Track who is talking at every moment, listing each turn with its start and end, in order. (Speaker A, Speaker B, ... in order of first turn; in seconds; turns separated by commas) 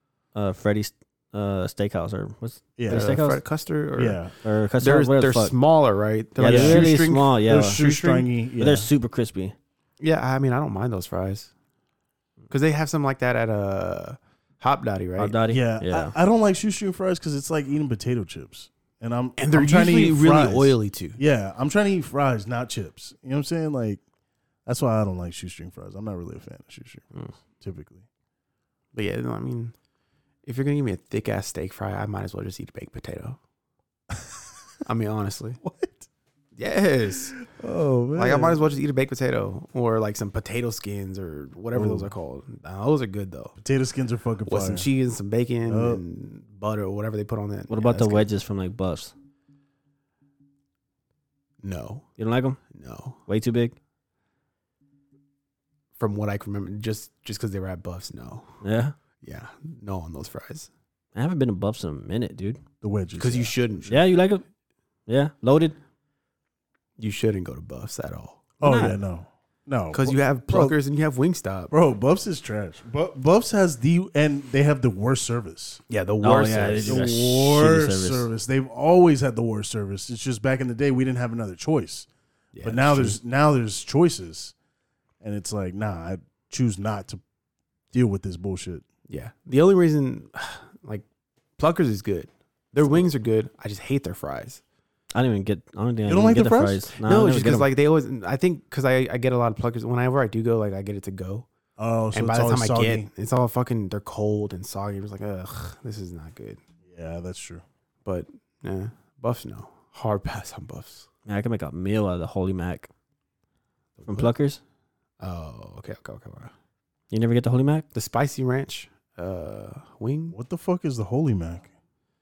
Speaker A: 0.3-3.4, Speaker B: 2.8-3.1, Speaker C: 2.9-4.2, Speaker B: 4.0-4.3, Speaker A: 4.4-5.5, Speaker C: 4.8-8.3, Speaker A: 6.4-7.8, Speaker B: 6.4-8.9, Speaker A: 8.6-9.6, Speaker C: 10.0-11.5, Speaker C: 12.5-15.4, Speaker A: 15.2-16.1, Speaker B: 15.5-24.0, Speaker C: 19.4-21.2, Speaker B: 24.7-28.0, Speaker C: 28.9-29.7, Speaker C: 30.4-33.4, Speaker C: 34.9-35.6, Speaker B: 35.6-36.1, Speaker C: 36.6-37.4, Speaker B: 37.5-38.6, Speaker C: 38.2-43.6, Speaker B: 41.7-42.1, Speaker B: 43.6-44.9, Speaker C: 44.5-48.3, Speaker B: 45.7-46.0, Speaker A: 47.7-49.1, Speaker C: 51.6-52.1, Speaker A: 52.2-52.6, Speaker C: 52.7-53.2, Speaker A: 53.3-53.7, Speaker C: 56.0-58.6, Speaker A: 58.6-58.9, Speaker C: 59.2-60.7, Speaker A: 61.2-62.6, Speaker B: 62.8-63.6, Speaker C: 63.2-64.1, Speaker A: 63.9-64.4, Speaker A: 65.1-65.8, Speaker C: 67.0-68.5, Speaker B: 68.6-70.8, Speaker A: 68.6-69.0, Speaker C: 69.9-71.7, Speaker B: 71.7-75.8, Speaker C: 75.9-77.1, Speaker A: 76.2-78.3, Speaker B: 76.8-82.1, Speaker C: 82.5-83.2, Speaker B: 82.6-84.5, Speaker B: 85.2-87.2, Speaker B: 87.9-88.8, Speaker C: 89.1-91.0, Speaker C: 91.6-94.6, Speaker A: 95.2-97.7, Speaker B: 96.1-96.9, Speaker C: 97.0-101.5, Speaker B: 101.8-103.1, Speaker C: 102.1-106.6, Speaker B: 106.9-107.7, Speaker C: 108.0-111.1, Speaker A: 111.3-112.9, Speaker C: 114.0-114.3, Speaker A: 114.1-114.6, Speaker C: 115.2-116.5, Speaker A: 117.1-117.9, Speaker C: 117.9-120.4, Speaker B: 120.3-121.7